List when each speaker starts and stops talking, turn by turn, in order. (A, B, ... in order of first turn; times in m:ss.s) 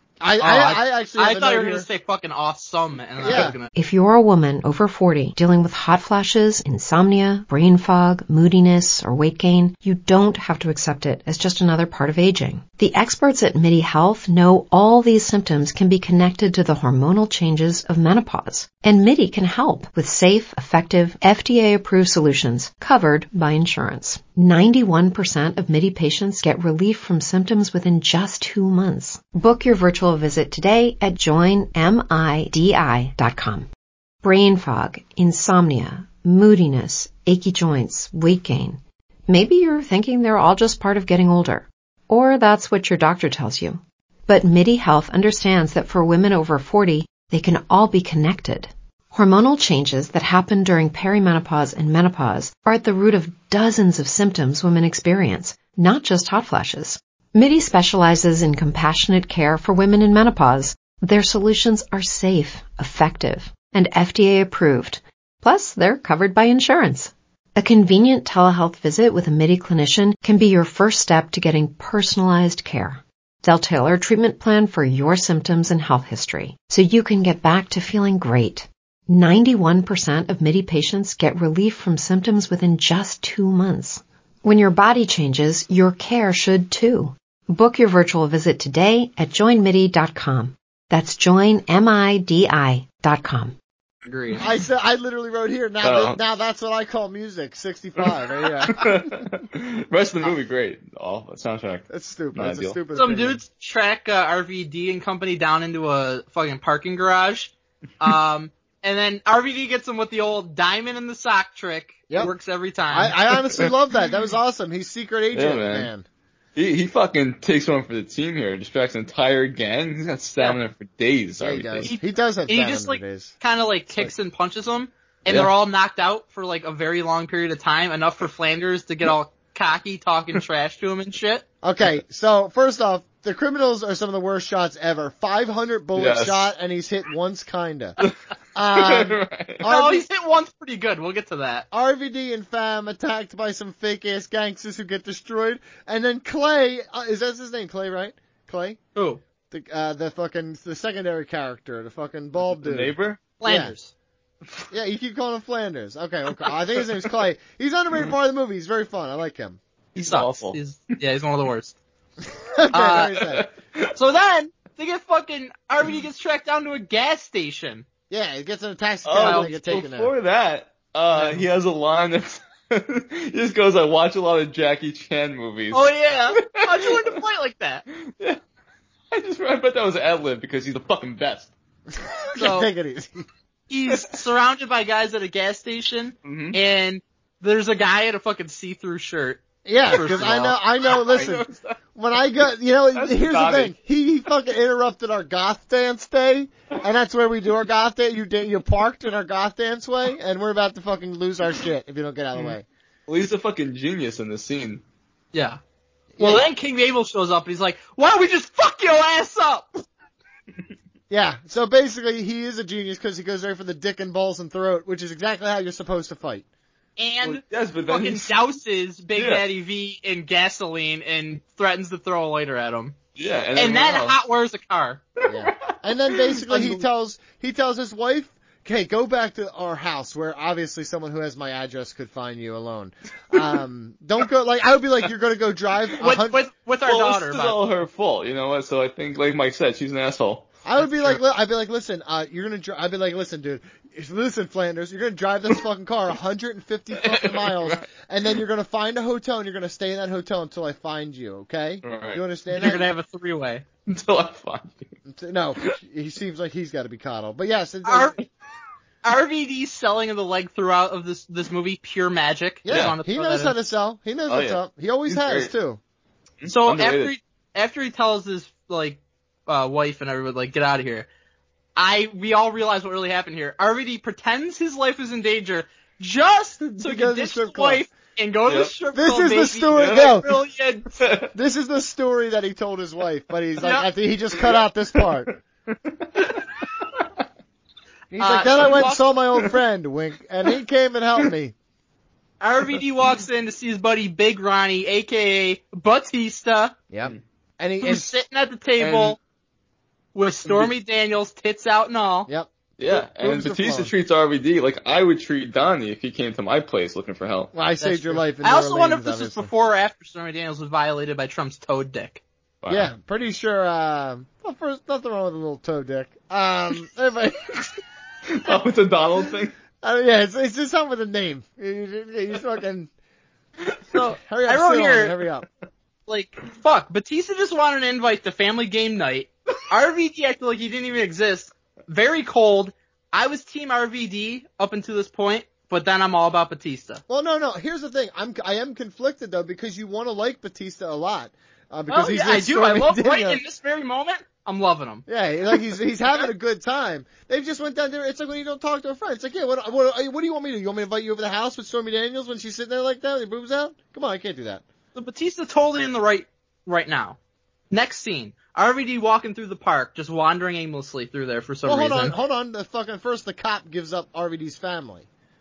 0:00.2-0:01.9 A
0:00.4-0:03.7 B
0:03.2-0:03.6 A
0:03.7-0:33.7 C
0:34.2-1:33.6 C
1:34.0-1:34.4 B
1:34.4-1:39.1 A
1:35.8-1:36.2 D
1:38.7-1:42.8 D
1:41.9-1:43.4 A
1:42.9-1:53.2 B
1:52.9-1:56.0 A
1:55.3-1:55.9 D
1:56.6-2:01.9 D
2:01.4-2:03.4 A
2:01.8-2:11.4 B
2:05.3-2:05.5 D
2:11.6-2:18.0 A
2:16.0-2:16.5 D
2:18.5-2:20.0 A
2:18.7-2:19.6 D
2:19.6-2:21.7 B
2:21.7-2:28.8 A
2:28.9-2:29.2 B
2:29.5-2:33.7 A
2:32.5-2:33.2 D
2:33.4-2:33.9 B
2:34.7-2:39.6 A
2:40.0-2:40.6 D
2:40.0-2:41.8 B
2:42.6-2:43.4 A
2:42.7-2:43.1 B
2:43.3-2:43.9 D
2:43.9-2:47.8 B
2:48.1-2:50.1 A
2:49.0-2:57.1 D
2:49.2-2:49.5 B
2:51.1-2:51.4 B
2:55.7-2:57.8 B
2:58.0-2:58.4 D
2:59.1-3:01.5 D
3:02.0-3:03.2 A
3:02.4-3:02.7 B
3:03.7-3:10.6 B
3:06.2-3:06.6 D
3:09.6-3:22.6 A
3:10.9-3:11.8 D
3:12.9-3:13.7 D
3:23.1-3:24.8 D
3:25.3-3:25.6 B
3:26.2-3:26.4 A
3:26.2-3:29.8 B
3:31.1-3:36.4 A
3:37.0-3:43.0 B
3:37.2-3:38.4 D
3:39.2-3:39.4 D
3:43.2-3:44.2 D
3:43.5-3:45.0 B
3:45.2-3:56.4 A
3:45.3-3:46.4 D
3:56.0-3:57.6 B
3:56.8-4:01.1 D
4:00.6-4:12.8 A
4:07.0-4:07.8 D
4:11.8-4:12.2 D
4:12.5-4:13.6 B
4:13.9-4:14.9 D
4:15.1-4:18.1 A
4:17.8-4:18.1 B
4:19.0-4:23.5 B
4:22.6-4:25.8 A
4:22.7-4:22.9 D
4:24.3-4:25.5 D
4:26.4-4:27.1 D
4:26.5-4:31.1 B
4:31.8-4:40.9 B
4:36.7-4:37.8 A
4:38.5-4:38.7 D
4:38.9-4:40.3 A
4:39.7-4:40.1 D
4:41.0-4:41.3 D
4:41.3-4:45.3 A
4:45.9-4:46.4 D
4:48.1-4:51.5 A
4:48.2-4:49.0 B
4:52.4-4:56.8 B
4:56.9-4:58.1 A
4:57.8-4:59.2 B
5:00.1-5:02.3 B
5:02.3-5:03.9 A
5:02.8-5:07.5 D
5:07.5-5:09.5 A
5:07.8-5:12.2 B
5:12.6-5:12.9 D
5:12.7-5:17.7 A
5:18.3-5:19.5 D
5:19.8-5:22.9 A
5:23.9-5:25.1 B
5:24.2-5:25.4 A
5:26.1-5:37.0 B
5:37.1-5:43.4 A
5:41.9-5:45.0 B
5:45.1-5:54.6 A
5:54.9-5:57.2 B
5:57.7-6:02.1 B
6:01.6-6:05.0 A